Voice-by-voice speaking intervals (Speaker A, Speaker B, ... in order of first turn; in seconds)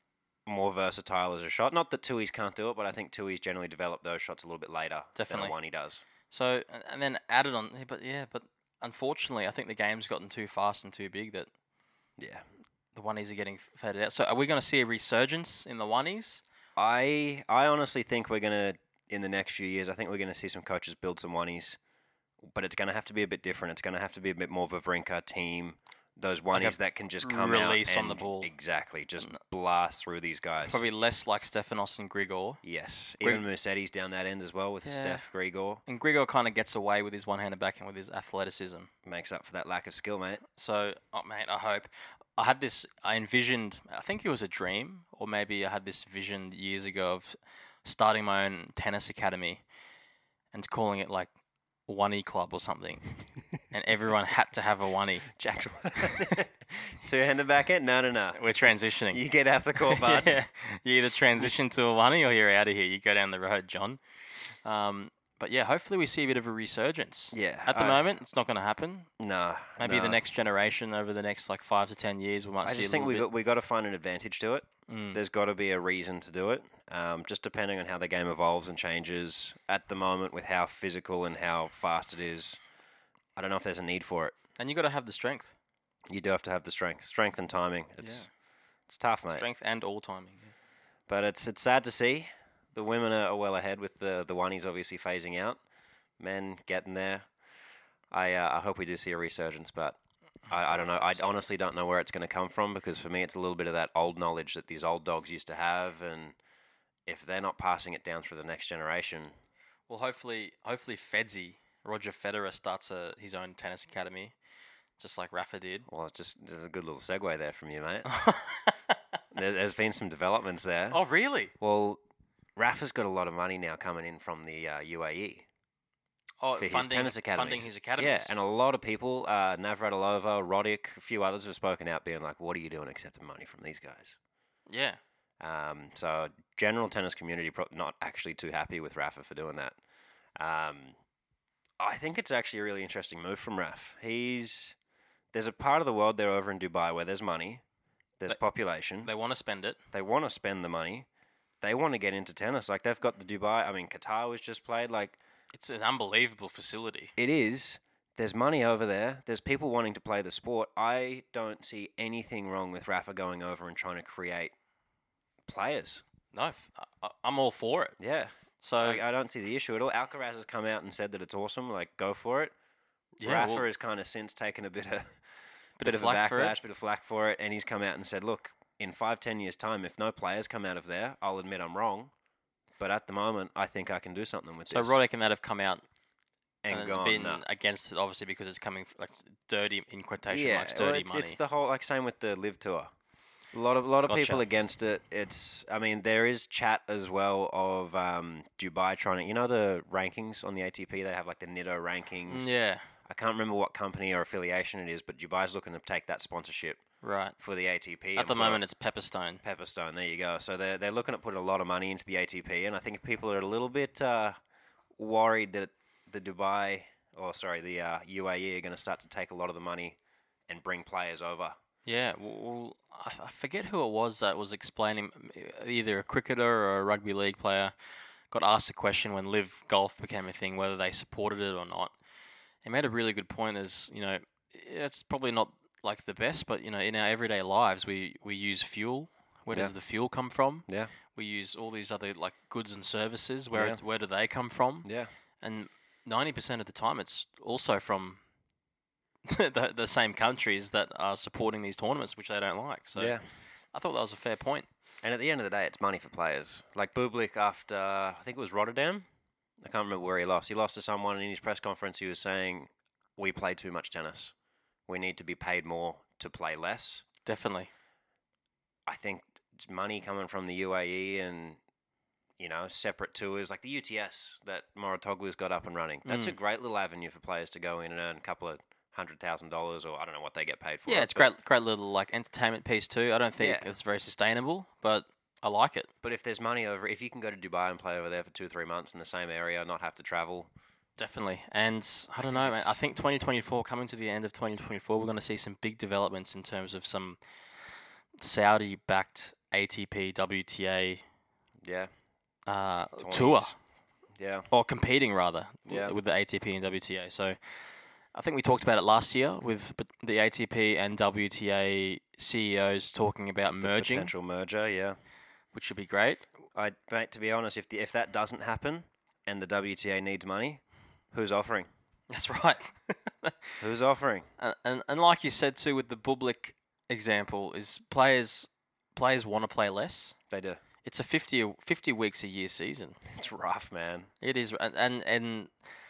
Speaker A: 0.5-6.0, 12.2-12.4, 16.8-21.8, 22.4-30.8, 32.6-35.8, 39.0-40.4, 55.3-60.4, 67.3-68.1, 69.2-70.2, 72.6-82.6, 83.3-84.3, 86.1-88.3, 88.9-89.5, 91.1-95.6, 96.2-97.3, 98.1-100.0, 100.5-106.4, 107.0-109.3, 115.9-118.1, 119.3-121.0, 121.6-122.0, 122.5-125.5, 126.5-134.2, 135.4-139.8, 140.4-140.9, 141.8-144.8, 145.3-147.6, 148.2-149.1, 149.9-151.1, 151.6-155.2, 157.2-164.5, 165.4-166.0, 168.0-172.5, 173.2-175.2, 175.8-182.1, 182.8-185.0, 186.6-187.4, 190.3-192.9, 193.5-202.5, 203.0-206.8, 207.4-208.6, 209.4-214.4, 215.0-221.6, 240.7-240.9, 243.5-243.8, 244.8-245.1, 252.9-253.2, 255.0-259.1, 259.6-264.3, 264.9-267.0, 268.9-271.6, 272.4-281.3, 283.4-283.7, 286.0-290.5, 292.2-292.8, 301.6-301.9, 303.0-303.5, 304.1-304.5, 305.7-305.9, 313.6-314.9, 316.5-321.7, 323.6-324.3, 330.3-330.6, 333.0-334.1
Speaker B: 5.2-5.5, 6.3-11.5, 12.9-16.4, 26.5-28.5, 30.6-32.6, 34.8-35.2, 35.9-38.9, 40.5-49.6, 50.5-51.3, 51.9-53.1, 53.7-55.3, 58.3-59.2, 59.8-69.1, 69.8-73.3, 74.9-75.2, 84.6-85.5, 88.0-88.3, 89.3-90.5, 100.6-101.4, 109.9-114.3, 115.0-115.9, 118.1-119.0, 120.9-121.5, 126.4-128.3, 134.7-135.0, 149.0-149.8, 155.5-157.1, 166.3-168.0, 168.6-169.0, 173.2-173.7, 175.8-176.6, 184.7-185.8, 186.7-191.4, 194.1-194.4, 202.3-202.9, 207.0-207.3, 208.2-209.4, 221.8-227.7, 228.3-231.9, 232.6-244.9, 245.4-248.2, 249.2-253.2, 253.7-254.7, 267.2-267.7, 276.1-276.3, 280.9-285.9, 291.0-297.2, 298.2-301.0, 302.5-303.5, 304.5-314.1, 315.5-316.2, 322.1-323.6, 324.4-330.1, 330.8-333.0, 334.2-335.5